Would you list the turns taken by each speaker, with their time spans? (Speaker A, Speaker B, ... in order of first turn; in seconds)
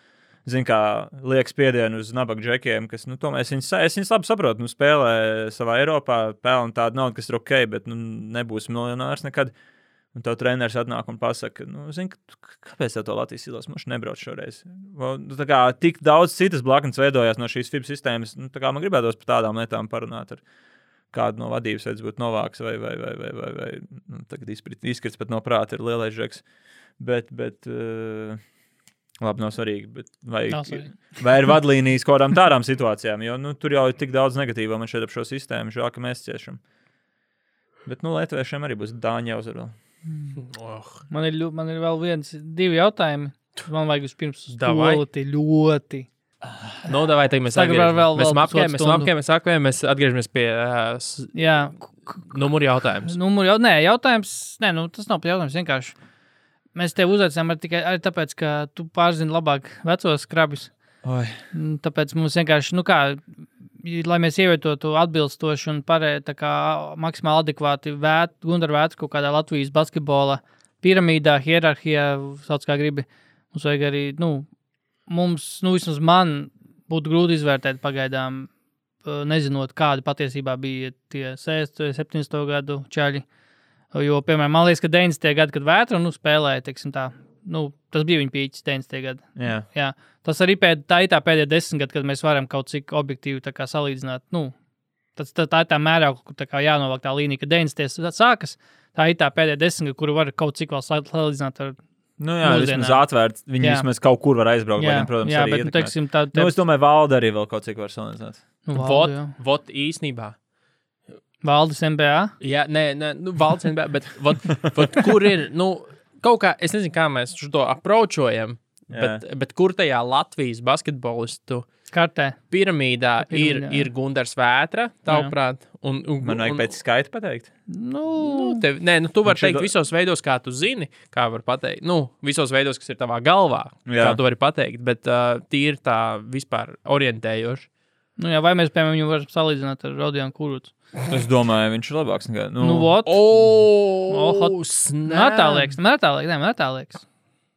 Speaker A: 0.4-9.5, 10.1-20.4, 21.1-26.4, 27.0-28.4, 29.2-36.6, 37.8-39.7, 61.0-61.4, 89.4-89.7, 102.2-108.4, 118.9-119.2, 126.2-127.5, 129.2-129.7, 133.9-134.2, 141.1-142.9
Speaker B: 30.5-31.0, 41.1-46.1, 47.5-49.1, 51.3-52.3, 53.0-55.9, 56.7-60.7, 61.5-63.2, 63.8-74.5, 75.1-78.5, 79.0-83.2, 83.9-94.5, 95.2-101.8, 102.4-103.0, 103.6-103.9, 104.8-106.6, 108.7-109.3, 111.4-112.3, 121.9-122.4, 123.2-123.9, 125.1-125.3, 127.7-128.6, 138.2-140.7, 142.6-143.2, 144.1-147.0
Speaker C: 40.4-41.0, 44.5-45.0, 46.8-51.4, 52.3-53.1, 108.7-110.3, 112.4-121.7, 122.5-126.7, 128.2-137.7, 143.1-145.7